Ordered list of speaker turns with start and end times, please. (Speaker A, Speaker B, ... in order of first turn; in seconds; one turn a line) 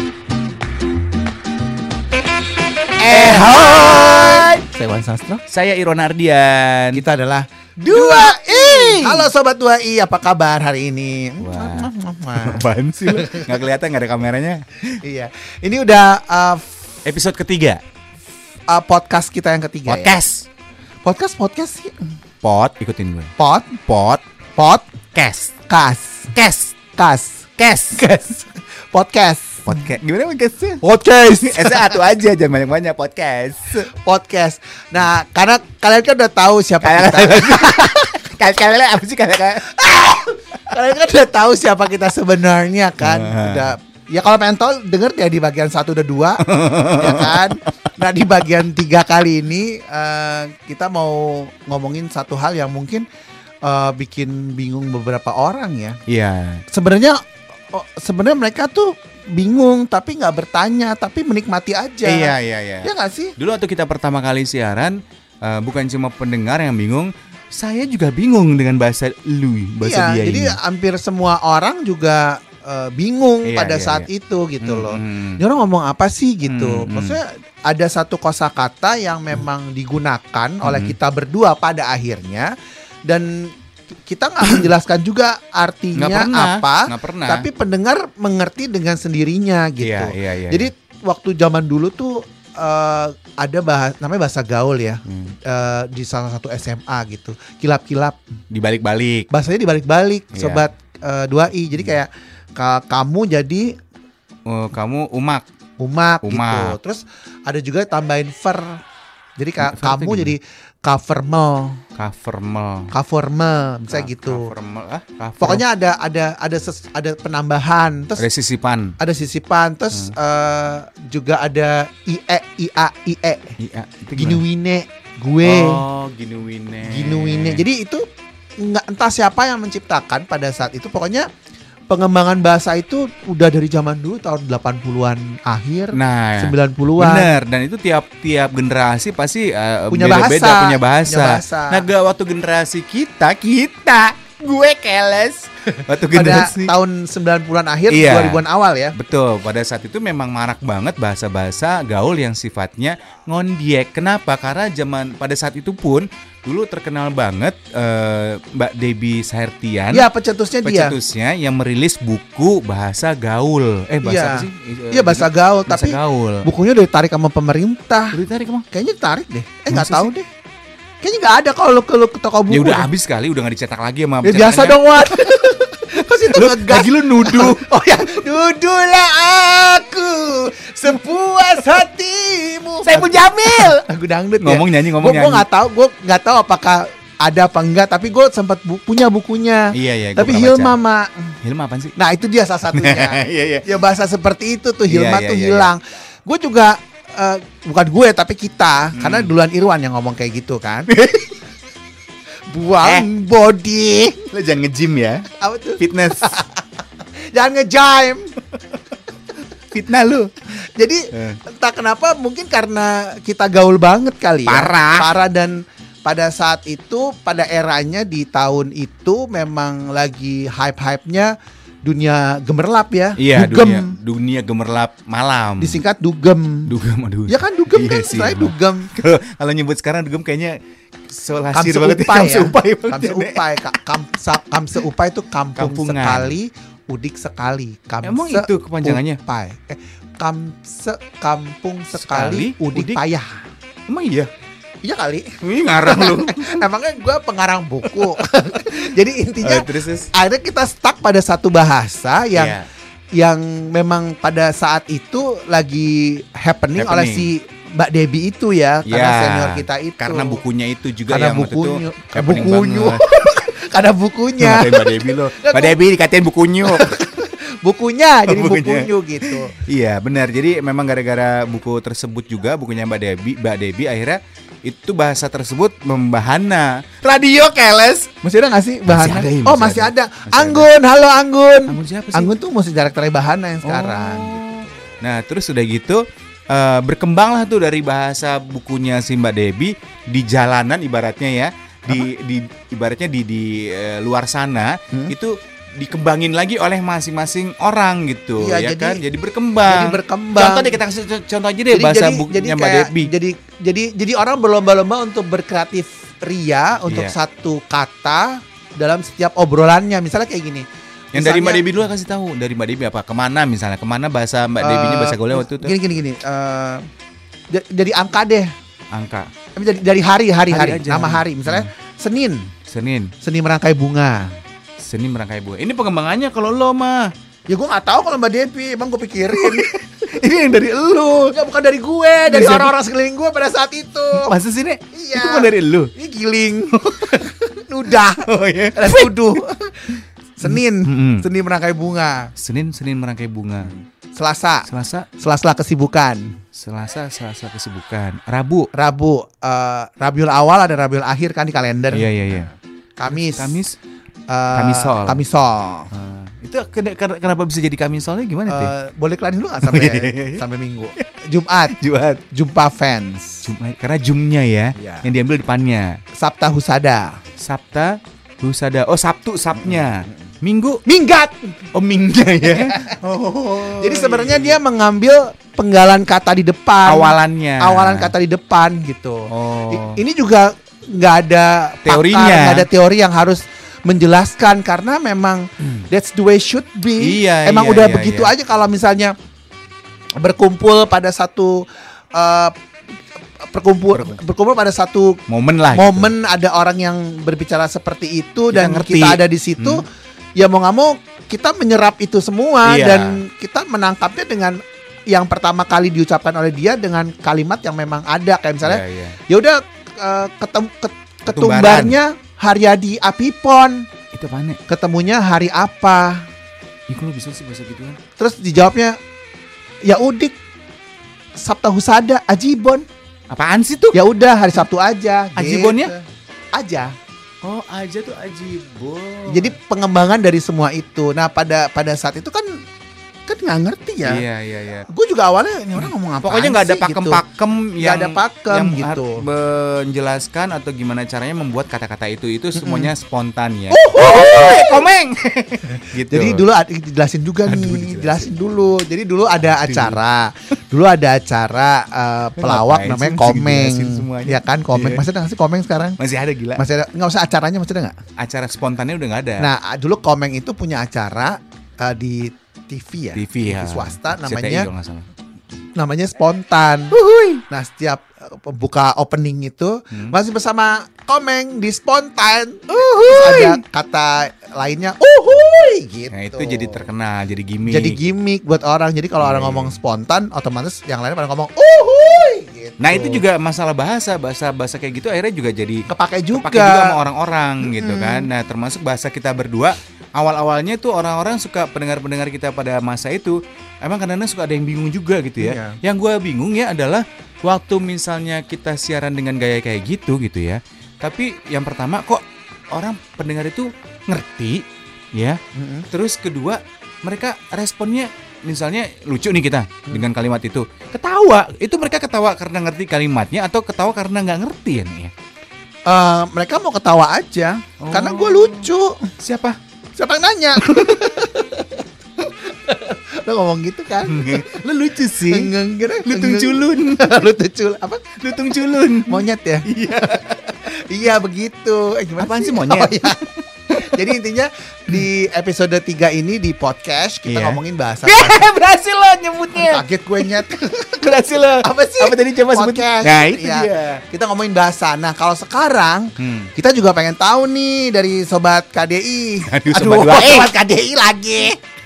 Speaker A: 3.0-5.4
Speaker B: 3.0-4.6
Speaker B: 5.5-7.0
Speaker A: 6.9-13.6
Speaker B: 7.8-9.3
Speaker B: 11.4-14.9
Speaker A: 15.0-16.8
Speaker B: 17.1-17.8
Speaker A: 18.7-20.2
Speaker B: 19.9-20.5
Speaker A: 21.0-22.1
Speaker B: 22.4-23.3
Speaker A: 23.4-23.8
Speaker B: 23.9-24.2
Speaker A: 24.6-24.9
Speaker B: 25.1-25.5
Speaker A: 25.7-26.3
Speaker B: 26.4-26.7
Speaker A: 26.9-29.8
Speaker B: 27.6-28.0
Speaker B: 29.7-33.9
Speaker A: 30.8-32.0
Speaker A: 33.9-38.0
Speaker B: 36.8-39.8
Speaker A: 39.7-53.0
Speaker B: 43.0-43.7
Speaker B: 46.4-47.7
Speaker A: 53.6-56.0
Speaker B: 56.1-56.6
Speaker A: 56.7-57.2
Speaker A: 57.7-63.4
Speaker B: 62.0-70.6
Speaker A: 69.8-82.5
Speaker B: 73.5-74.1
Speaker B: 74.6-75.4
Speaker B: 76.4-77.2
Speaker B: 80.6-81.0
Speaker A: 83.1-83.5
Speaker A: 84.1-98.2
Speaker B: 86.0-87.5
Speaker B: 89.8-90.7
Speaker B: 95.1-95.3
Speaker B: 98.5-99.3
Speaker A: 99.3-103.8
Speaker B: 100.3-100.7
Speaker B: 104.5-105.5
Speaker A: 105.8-108.8
Speaker B: 106.2-106.8
Speaker A: 109.4-111.8
Speaker B: 109.6-110.3
Speaker B: 112.0-112.9
Speaker A: 112.9-114.5
Speaker B: 113.9-115.6
Speaker A: 115.4-118.3
Speaker B: 118.2-119.0
Speaker A: 119.0-123.5
Speaker B: 123.6-124.4
Speaker A: 124.2-125.8
Speaker B: 125.4-127.7
Speaker A: 126.8-128.1
Speaker A: 128.6-131.3
Speaker A: 131.9-137.3
Speaker B: 135.9-146.7
Speaker A: 139.9-141.9
Speaker A: 145.8-148.9
Speaker B: 147.9-160.1
Speaker A: 159.9-161.0
Speaker B: 160.6-166.5
Speaker A: 164.0-168.2
Speaker B: 168.1-168.7
Speaker A: 168.7-170.3
Speaker B: 169.7-170.1
Speaker A: 171.0-172.9
Speaker B: 172.5-175.5
Speaker A: 174.2-191.3
Speaker B: 176.1-177.7
Speaker B: 182.8-183.8
Speaker B: 184.4-185.5
Speaker B: 189.7-190.8
Speaker B: 191.4-191.9
Speaker A: 192.0-200.9
Speaker B: 192.7-193.7
Speaker B: 194.9-195.7
Speaker B: 198.9-199.3
Speaker B: 200.9-201.4
Speaker A: 202.5-204.3
Speaker B: 202.8-203.1
Speaker B: 204.3-205.3
Speaker A: 205.4-206.7
Speaker B: 205.8-206.4
Speaker A: 207.3-208.4
Speaker B: 209.7-210.3
Speaker A: 210.5-224.0
Speaker B: 211.1-211.4
Speaker B: 214.5-215.1
Speaker B: 223.2-225.8
Speaker A: 225.6-226.7
Speaker B: 226.7-233.8
Speaker A: 227.3-228.9
Speaker A: 231.5-243.4
Speaker B: 235.6-236.4
Speaker B: 238.0-239.2
Speaker B: 241.9-243.0
Speaker B: 243.9-244.3
Speaker A: 244.8-252.6
Speaker B: 245.4-246.7
Speaker B: 247.9-248.2
Speaker B: 249.4-250.1
Speaker B: 252.3-252.7
Speaker A: 253.2-260.4
Speaker B: 256.8-257.3
Speaker B: 258.9-263.0
Speaker A: 261.1-265.8
Speaker B: 264.4-267.0
Speaker A: 266.6-269.6
Speaker B: 268.3-278.1
Speaker A: 278.2-284.4
Speaker B: 278.9-280.7
Speaker B: 281.7-282.3
Speaker B: 283.6-303.1
Speaker A: 298.4-299.0
Speaker A: 299.7-300.8
Speaker A: 301.7-311.7
Speaker B: 306.9-307.1
Speaker B: 311.1-315.7
Speaker A: 314.6-316.9
Speaker A: 317.5-318.5
Speaker B: 318.9-319.3
Speaker A: 319.6-322.5
Speaker B: 320.5-321.7
Speaker B: 322.7-323.1
Speaker A: 323.2-324.3
Speaker B: 324.8-327.1
Speaker A: 327.5-329.9
Speaker B: 329.3-331.4
Speaker A: 331.3-334.3
Speaker B: 332.3-332.7
Speaker B: 334.1-335.9
Speaker A: 334.9-342.3
Speaker B: 336.7-337.2
Speaker B: 338.2-339.4
Speaker B: 340.4-341.2
Speaker B: 342.4-343.7
Speaker A: 344.1-346.4
Speaker B: 344.7-345.1
Speaker B: 346.5-348.7
Speaker A: 348.7-352.4
Speaker B: 351.9-352.5
Speaker A: 353.0-353.6
Speaker B: 353.1-353.8
Speaker A: 354.3-355.9
Speaker B: 354.5-355.2
Speaker B: 355.9-358.7
Speaker A: 358.5-361.8
Speaker B: 359.6-360.4
Speaker B: 361.7-362.2
Speaker A: 362.3-363.5
Speaker B: 363.4-366.0
Speaker A: 364.8-365.1
Speaker A: 366.2-367.2
Speaker B: 367.4-370.8
Speaker A: 370.9-371.7
Speaker B: 371.7-374.6
Speaker A: 372.5-373.0
Speaker A: 373.6-389.1
Speaker B: 376.9-378.1
Speaker B: 379.3-380.0
Speaker B: 381.8-382.7
Speaker B: 387.0-388.3
Speaker A: 390.2-392.6
Speaker A: 393.4-399.9
Speaker B: 393.9-394.2
Speaker B: 395.3-396.1
Speaker B: 398.5-399.8
Speaker A: 400.4-413.9
Speaker B: 402.6-403.2
Speaker B: 408.6-409.2
Speaker B: 411.3-412.0
Speaker B: 414.1-414.6
Speaker A: 414.7-416.3
Speaker B: 416.9-418.0
Speaker A: 418.2-419.0
Speaker A: 419.9-420.3
Speaker A: 421.4-422.9
Speaker B: 423.3-424.0
Speaker A: 423.9-426.0
Speaker B: 425.4-425.9
Speaker A: 426.5-426.9
Speaker B: 427.4-429.6
Speaker A: 429.3-432.6
Speaker A: 433.3-434.2
Speaker B: 434.0-434.9
Speaker A: 434.9-437.2
Speaker B: 435.8-446.4
Speaker A: 437.8-439.2
Speaker A: 442.6-442.9
Speaker A: 443.7-444.8
Speaker A: 446.0-456.0
Speaker B: 447.5-448.5
Speaker B: 449.4-450.0
Speaker B: 452.4-455.1
Speaker B: 456.0-456.6
Speaker A: 456.6-458.0
Speaker B: 458.2-459.5
Speaker A: 459.4-464.7
Speaker B: 463.1-465.1
Speaker A: 465.8-467.0
Speaker B: 466.9-467.4
Speaker A: 467.5-476.9
Speaker B: 469.9-470.2
Speaker B: 472.7-473.6
Speaker B: 476.1-478.0
Speaker A: 477.6-483.2
Speaker B: 479.2-479.8
Speaker B: 482.8-515.1
Speaker A: 485.9-487.0
Speaker A: 487.6-488.3
Speaker A: 495.4-495.8
Speaker A: 505.6-505.9
Speaker A: 515.9-519.1
Speaker B: 517.8-519.6
Speaker A: 520.0-524.6
Speaker B: 520.6-521.2
Speaker B: 524.0-527.3
Speaker A: 525.2-528.1
Speaker B: 528.2-530.6
Speaker A: 529.1-529.7
Speaker A: 530.5-538.5
Speaker B: 532.2-534.0
Speaker B: 537.3-544.0
Speaker A: 539.5-541.1
Speaker A: 541.6-551.6
Speaker B: 546.2-546.5
Speaker B: 549.5-550.5